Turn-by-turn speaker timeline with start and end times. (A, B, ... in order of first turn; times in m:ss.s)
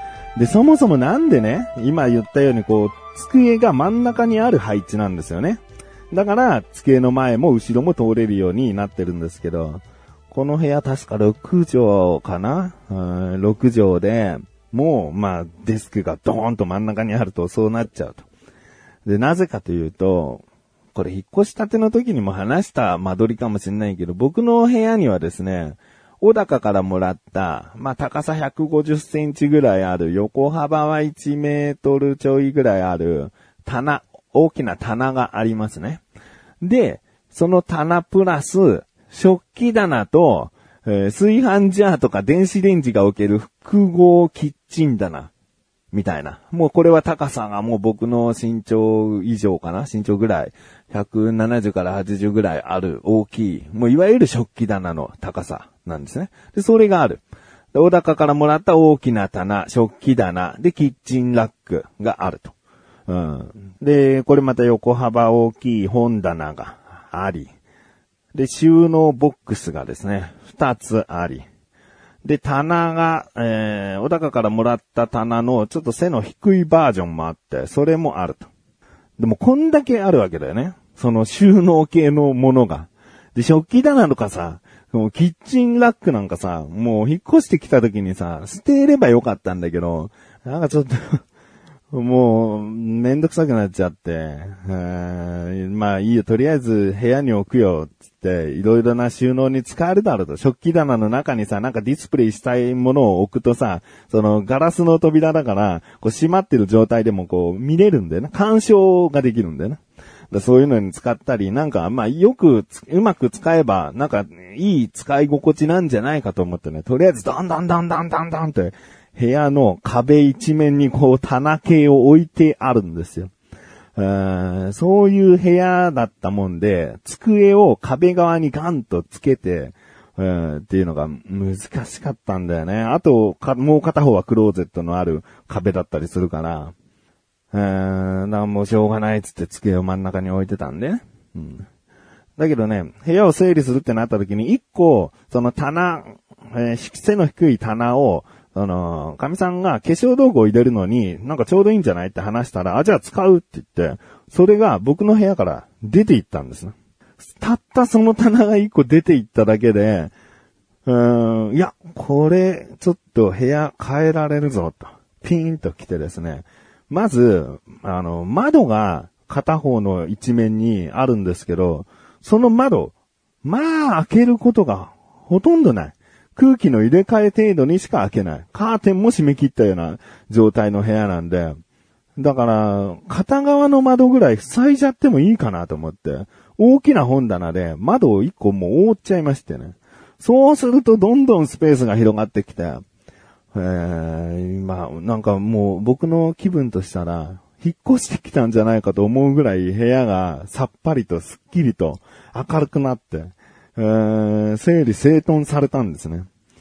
0:00.4-0:18.2 A
0:19.0-0:36.0 A
0:36.6-0:45.3 A
0:45.9-1:02.6 A
1:03.1-1:07.5 A
1:08.3-1:11.4 A
1:12.2-1:18.5 A
1:19.2-1:31.2 A
1:31.9-2:03.3 A
2:04.0-2:16.7 A
2:17.5-2:21.7 A
2:22.4-2:40.1 A
2:40.9-3:01.6 A
3:02.2-3:12.8 A
3:13.5-3:26.3 A